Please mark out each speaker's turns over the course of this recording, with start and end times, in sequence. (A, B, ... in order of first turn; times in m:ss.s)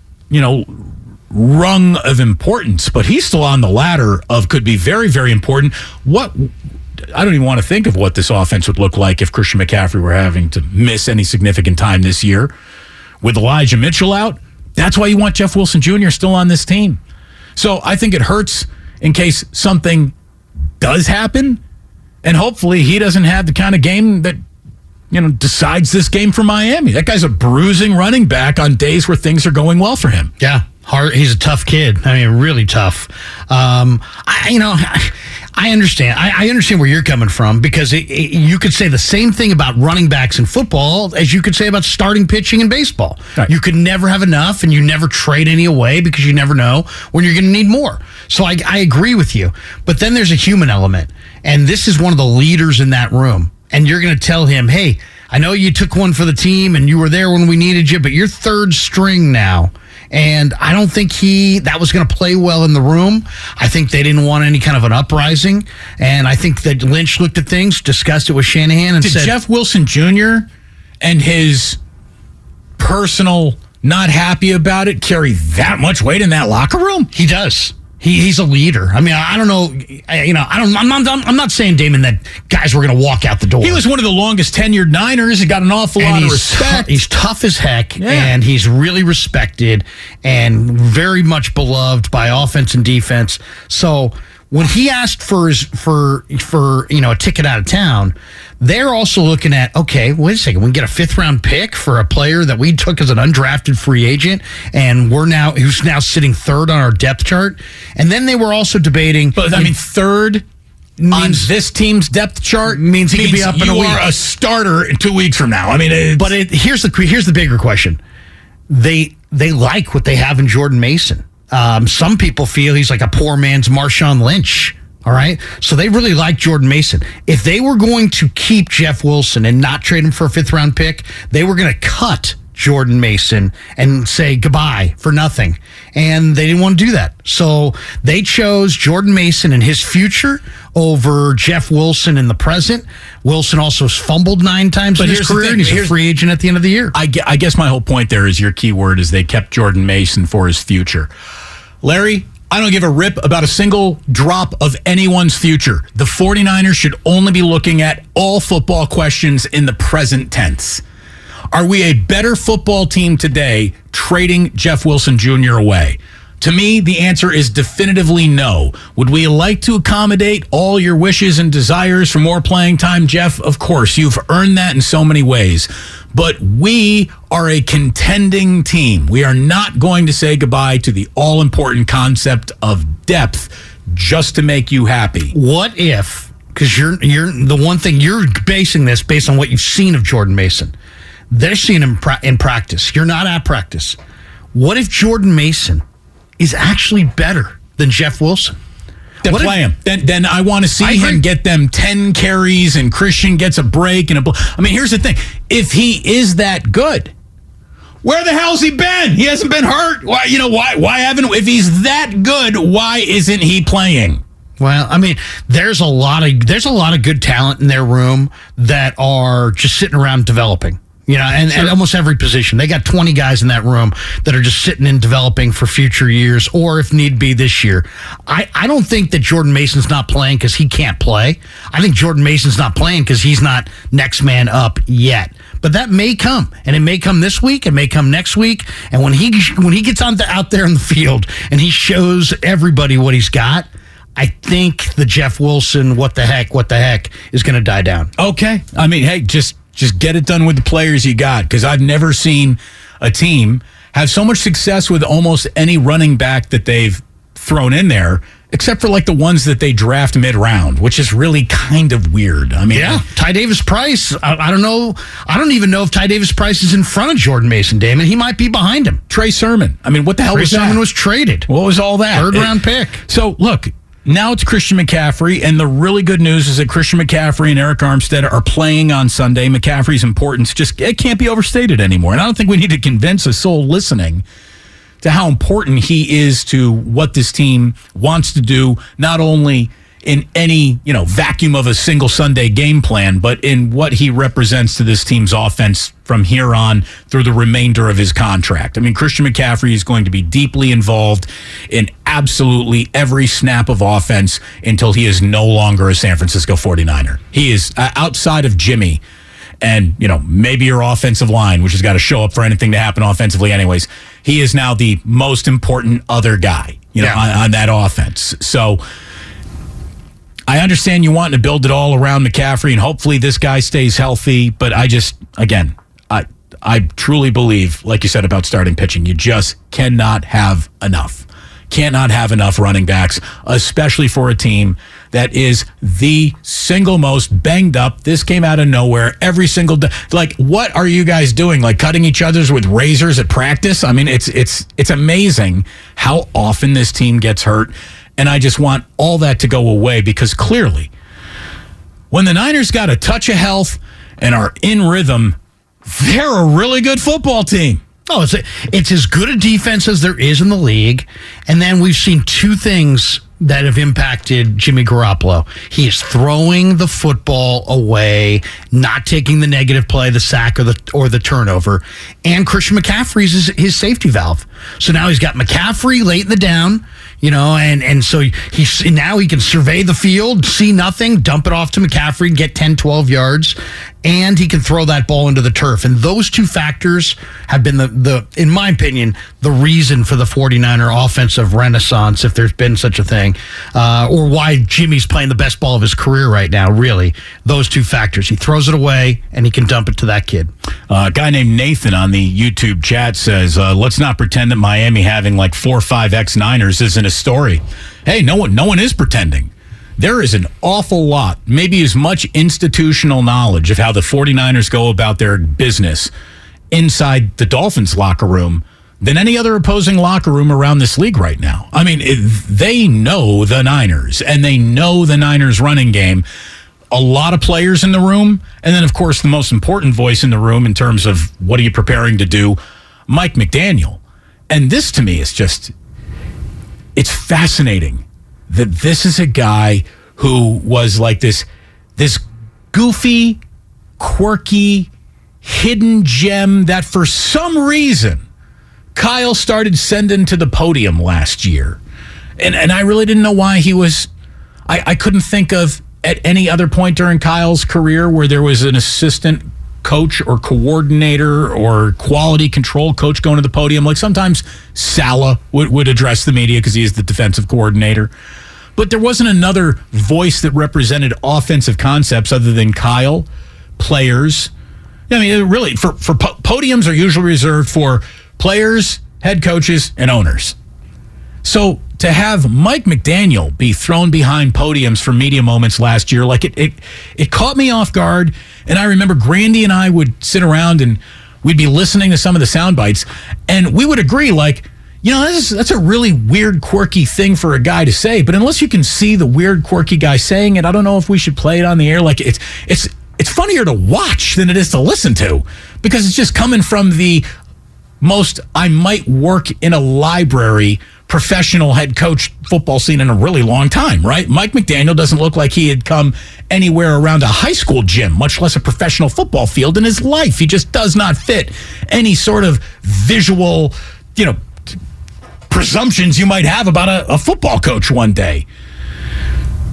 0:00.3-0:06.5 A
0:07.1-0:12.5 A
0:13.2-0:17.0 A
0:17.6-0:20.1 A
0:20.8-0:21.6 A
0:22.2-0:24.4 A
0:25.1-0:30.3 A
0:30.4-1:09.4 B
1:09.0-1:10.5 A
1:11.0-1:11.8 A
1:12.8-1:17.1 A
1:17.1-1:23.8 B
1:23.6-1:27.0 A
1:26.0-1:49.7 B
1:28.0-1:28.4 A
1:49.4-1:50.4 A
1:51.0-1:51.5 B
1:51.1-1:56.3 A
1:52.7-1:54.1 B
1:56.2-1:58.0 B
1:58.7-2:26.9 B
2:25.0-2:26.0 A
2:26.9-2:31.1 A
2:31.8-2:40.8 A
2:41.5-3:05.3 A
3:05.3-3:10.7 B
3:11.3-3:14.0 B
3:14.5-3:15.8 B
3:16.4-3:18.6 B
3:19.2-3:27.1 A
3:19.2-3:19.6 B
3:20.8-3:21.2 B
3:28.0-3:34.2 A
3:34.6-4:08.1 B
3:41.5-3:41.7 A
4:08.2-4:23.0 A
4:22.7-4:29.0 B
4:29.1-4:30.8 A
4:30.3-4:31.5 B
4:31.5-4:44.2 A
4:32.1-4:33.0 B
4:45.0-5:09.0 A
5:09.6-5:18.8 A
5:20.5-5:50.9 A
5:52.1-5:55.4 A
5:55.9-5:57.8 A
5:58.1-6:40.5 B
6:40.9-6:56.1 A
6:56.7-7:06.2 A
7:06.9-7:15.7 A
7:17.0-7:21.5 A
7:22.0-7:23.4 A
7:24.0-7:24.9 A
7:25.4-7:28.2 A
7:29.0-7:31.8 A
7:32.4-7:34.1 A
7:34.7-7:48.1 A
7:48.8-7:53.3 A
7:53.8-7:54.5 A
7:55.1-8:00.6 A
8:01.4-8:27.2 A
8:28.0-8:44.4 A
8:45.5-8:48.5 A